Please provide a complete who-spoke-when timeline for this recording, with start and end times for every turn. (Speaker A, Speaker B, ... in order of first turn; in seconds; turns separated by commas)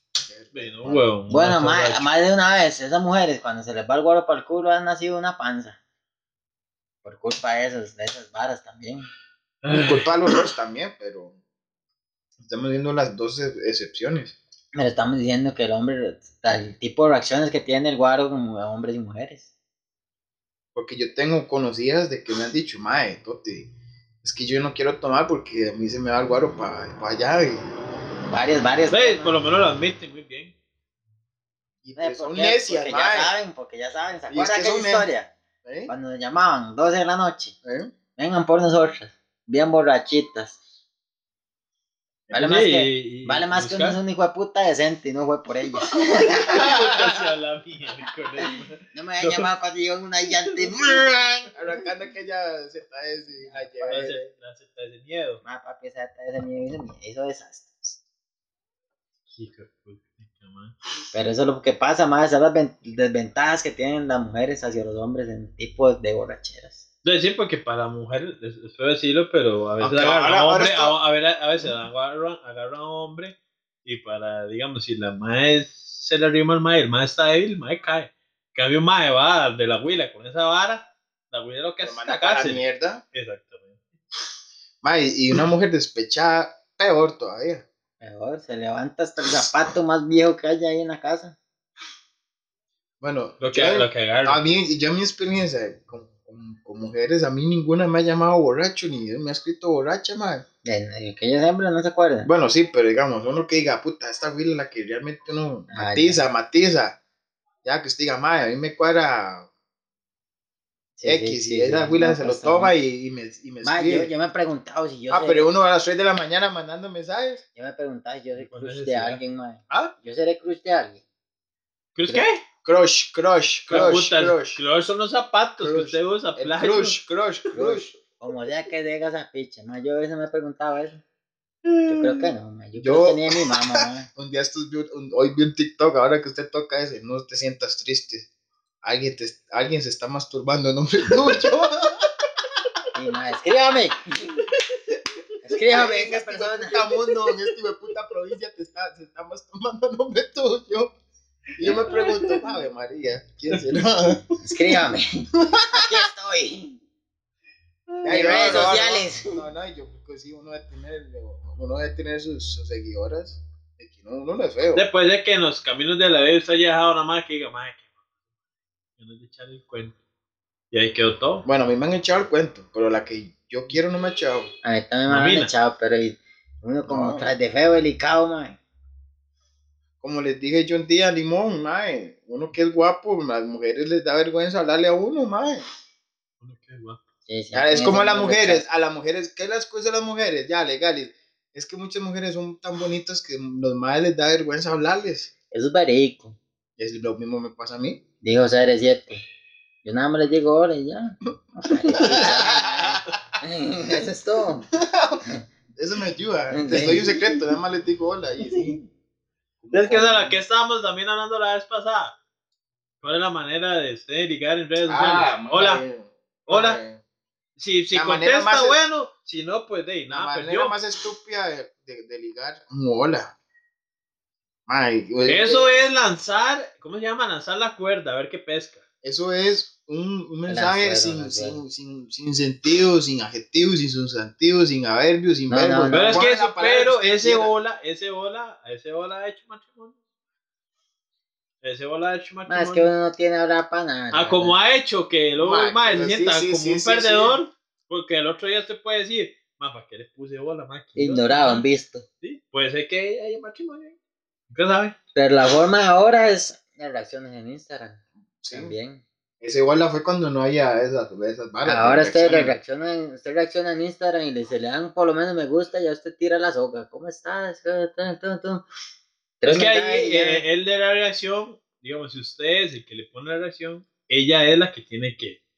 Speaker A: 0.2-1.0, Speaker B: 0.5-2.1, Speaker C: 1.3-5.8, Speaker C: 7.0-9.1, Speaker B: 9.6-10.5, Speaker A: 9.7-11.3, Speaker A: 12.4-14.3, Speaker C: 14.7-19.5, Speaker A: 20.7-23.7, Speaker A: 24.2-27.6, Speaker C: 28.3-29.4, Speaker B: 28.9-30.5, Speaker A: 31.8-33.3, Speaker C: 32.0-35.3, Speaker A: 34.3-35.1, Speaker A: 35.6-35.9, Speaker C: 35.9-37.5, Speaker A: 37.6-37.9, Speaker C: 38.2-40.6, Speaker C: 42.3-46.7, Speaker B: 42.3-44.0, Speaker B: 45.9-49.5, Speaker A: 46.5-47.2, Speaker C: 48.9-51.5, Speaker B: 50.2-50.7, Speaker A: 51.5-54.2, Speaker C: 53.4-53.9, Speaker B: 53.9-55.4, Speaker C: 55.4-58.0, Speaker B: 59.3-60.7, Speaker C: 61.1-66.8, Speaker B: 67.0-83.8, Speaker A: 69.8-70.9, Speaker A: 81.8-83.0, Speaker A: 84.8-87.6, Speaker C: 88.0-91.3, Speaker A: 93.0-100.4, Speaker B: 93.4-94.4, Speaker C: 100.6-102.3, Speaker A: 102.2-107.0, Speaker C: 105.7-106.2, Speaker A: 107.6-109.5, Speaker C: 111.0-112.7, Speaker A: 111.0-114.1, Speaker C: 113.6-115.5, Speaker A: 115.1-117.4, Speaker C: 117.5-121.0, Speaker B: 118.4-119.2, Speaker B: 122.0-122.4, Speaker A: 122.6-124.6, Speaker B: 123.7-127.0, Speaker A: 125.6-127.9, Speaker C: 127.5-131.0, Speaker B: 131.6-132.3, Speaker C: 131.9-134.1, Speaker A: 132.8-138.3, Speaker A: 138.8-142.0, Speaker C: 142.9-144.4, Speaker C: 145.4-146.8, Speaker A: 145.7-150.9, Speaker A: 151.6-154.2, Speaker B: 151.6-152.5, Speaker C: 154.4-156.8, Speaker A: 155.4-156.0, Speaker B: 157.9-158.7, Speaker A: 158.0-164.8, Speaker C: 158.1-159.4, Speaker B: 164.7-167.8, Speaker B: 169.0-169.9, Speaker B: 170.7-171.4, Speaker A: 171.4-174.5, Speaker C: 174.6-178.6, Speaker B: 175.1-175.5, Speaker A: 176.8-177.3, Speaker A: 180.0-185.6, Speaker B: 186.4-187.0, Speaker C: 187.3-188.6, Speaker A: 187.5-195.3, Speaker C: 195.5-196.4, Speaker A: 196.8-198.0, Speaker C: 198.2-199.2, Speaker C: 199.8-204.7, Speaker A: 201.8-203.1, Speaker A: 204.7-205.2, Speaker A: 205.8-208.8, Speaker C: 206.5-207.2, Speaker A: 209.6-210.4, Speaker B: 209.7-212.1, Speaker B: 213.0-215.8, Speaker A: 214.8-217.0, Speaker B: 216.5-216.8, Speaker B: 217.6-220.8, Speaker A: 217.9-218.8, Speaker A: 220.1-223.3, Speaker A: 224.7-225.8, Speaker B: 225.2-228.8, Speaker A: 229.0-237.5, Speaker C: 230.5-231.6, Speaker C: 235.5-236.2, Speaker B: 235.9-239.9, Speaker B: 241.6-242.9, Speaker C: 242.5-244.6, Speaker B: 244.1-251.6, Speaker A: 245.4-247.4, Speaker C: 250.9-252.0, Speaker B: 252.2-253.9, Speaker B: 254.5-254.9, Speaker C: 255.1-259.0, Speaker A: 258.4-258.7, Speaker A: 259.4-262.6, Speaker C: 261.6-268.6, Speaker C: 269.4-270.4, Speaker B: 269.4-275.4